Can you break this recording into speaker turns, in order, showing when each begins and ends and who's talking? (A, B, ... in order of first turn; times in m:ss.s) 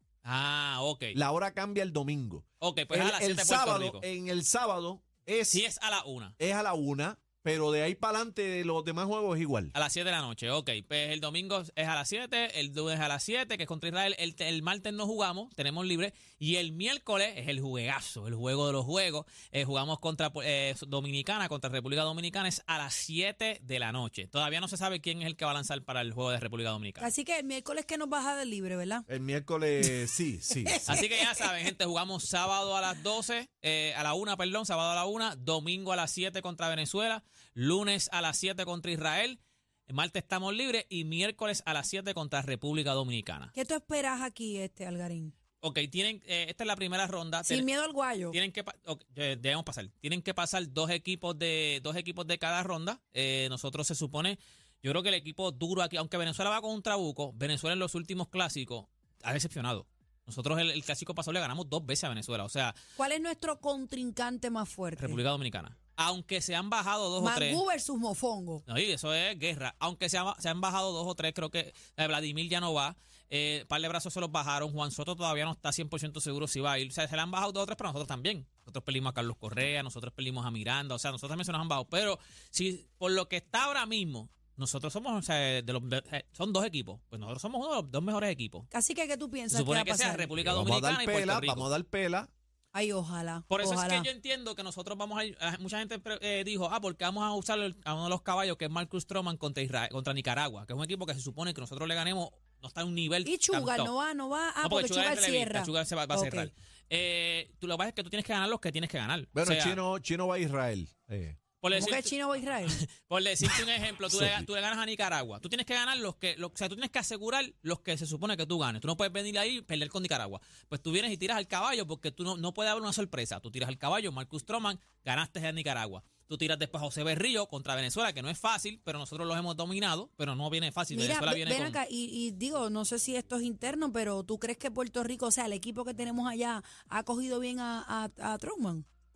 0:00.2-0:01.2 A
0:01.1-0:05.6 B
0:02.6-0:04.0 A
0:05.5-0:06.4 A
0:06.4-0:09.7 B
0:09.7-0:27.1 A
0:27.0-0:29.1 C
0:29.1-0:30.9 B
0:29.8-0:31.7 C
0:30.9-0:43.5 A
0:43.5-0:45.3 C
0:45.6-0:47.7 A
0:47.4-0:48.4 C
0:48.3-1:02.8 A
1:03.0-1:05.2 C
1:05.0-1:07.6 A
1:07.2-1:08.6 C
1:08.7-1:28.7 A
1:28.7-1:30.3 C
1:29.5-1:31.7 A
1:30.4-1:32.3 B
1:32.7-1:34.1 C
1:33.5-1:43.9 A
1:43.2-1:46.5 C
1:44.6-1:49.8 A
1:49.4-1:51.4 B
1:51.6-1:52.1 A
1:51.7-1:52.8 C
1:52.7-2:11.8 A
1:53.4-1:54.5 B
2:10.9-2:18.9 C